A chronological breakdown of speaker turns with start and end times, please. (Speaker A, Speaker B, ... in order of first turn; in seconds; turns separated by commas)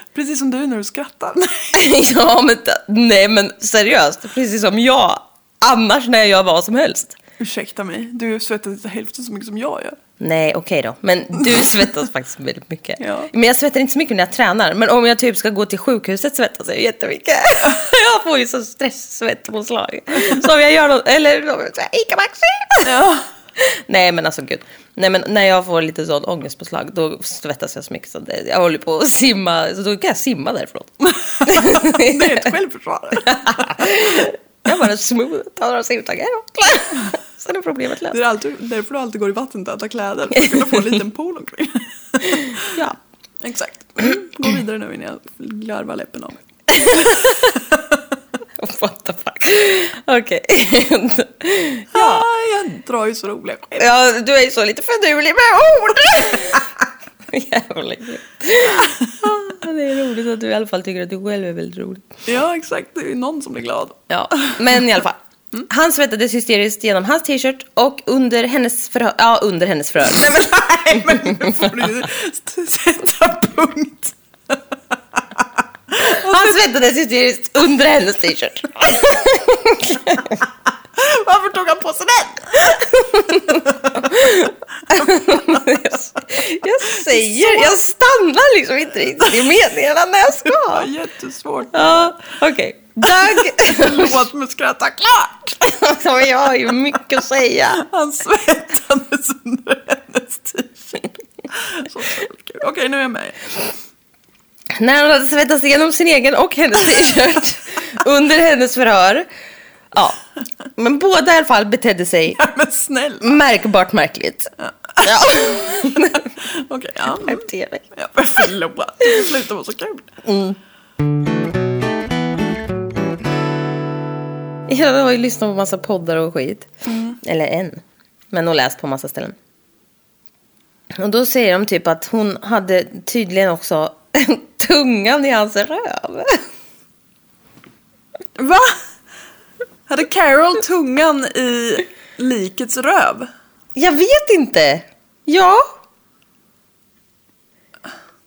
Speaker A: 0.1-1.8, Speaker B: 1.7-7.2, Speaker A: 7.4-10.0, Speaker B: 10.2-22.9, Speaker A: 13.0-13.3, Speaker A: 22.8-23.2, Speaker B: 23.6-32.5, Speaker A: 31.2-34.0, Speaker B: 33.2-38.2, Speaker A: 38.1-42.8, Speaker B: 40.4-40.7, Speaker B: 42.2-43.0, Speaker A: 43.4-47.4, Speaker B: 46.7-47.6, Speaker B: 48.6-52.2, Speaker A: 51.9-53.9, Speaker B: 53.8-56.7, Speaker B: 57.3-62.1, Speaker A: 62.2-64.6, Speaker B: 64.1-71.6, Speaker A: 70.2-74.6, Speaker A: 75.2-76.5, Speaker B: 76.0-80.4, Speaker A: 81.0-82.8, Speaker B: 82.6-90.9, Speaker A: 86.9-87.8, Speaker A: 90.5-92.2, Speaker B: 91.7-94.2, Speaker A: 93.0-95.6, Speaker B: 95.6-97.8, Speaker A: 97.8-103.6, Speaker B: 104.7-109.3, Speaker B: 109.9-110.2, Speaker B: 110.7-112.4, Speaker A: 112.3-113.4, Speaker B: 113.2-116.3, Speaker A: 114.8-120.1, Speaker B: 117.1-117.8, Speaker B: 120.2-120.6, Speaker B: 124.7-126.7, Speaker A: 126.8-127.2, Speaker B: 127.2-127.8, Speaker B: 128.3-129.3, Speaker B: 130.9-136.4, Speaker A: 138.3-138.8, Speaker A: 139.9-143.3, Speaker B: 143.7-145.7